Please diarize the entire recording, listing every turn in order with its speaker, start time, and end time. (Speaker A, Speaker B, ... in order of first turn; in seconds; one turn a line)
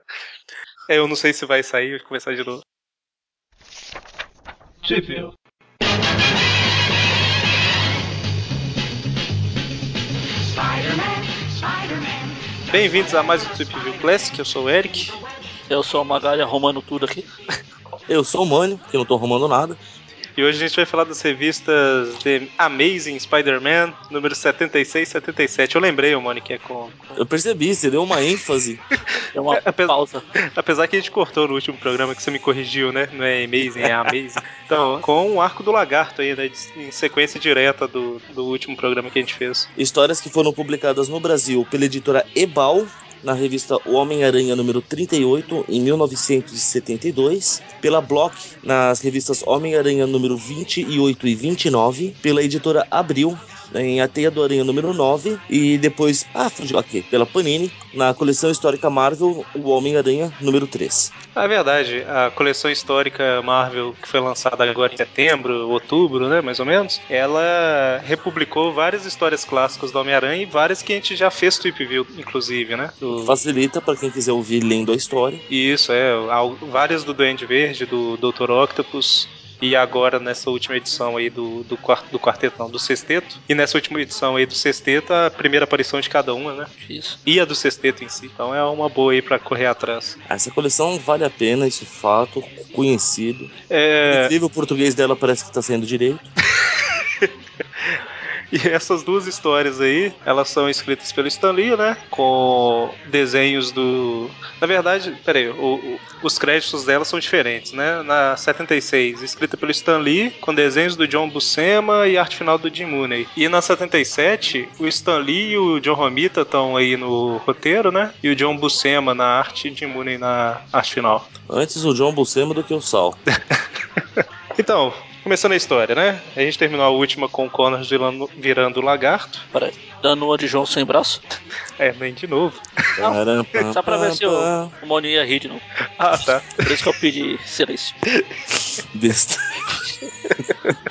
Speaker A: 0.9-2.6
Speaker A: 12.7-15.2
Speaker B: 15.7-17.3
Speaker C: 18.1-19.8
Speaker A: 20.4-27.1
Speaker C: 27.2-28.8
Speaker B: 29.2-30.2
Speaker A: 29.6-30.0
Speaker A: 30.5-39.7
Speaker C: 33.8-34.1
Speaker C: 39.8-61.1
Speaker A: 61.4-73.4
Speaker C: 73.1-75.4
Speaker A: 75.5-86.7
Speaker B: 86.8-87.2
Speaker A: 87.2-90.2
Speaker C: 90.3-93.5
Speaker A: 93.7-94.3
Speaker C: 94.1-96.3
Speaker A: 96.6-97.3
Speaker A: 98.5-121.3
Speaker C: 121.5-123.2
Speaker A: 124.2-129.4
Speaker B: 129.5-131.2
Speaker A: 131.8-132.7
Speaker C: 133.0-134.7
Speaker B: 133.0-135.6
Speaker A: 136.0-136.7
Speaker B: 136.6-138.0
Speaker C: 138.9-139.6
Speaker A: 140.2-140.5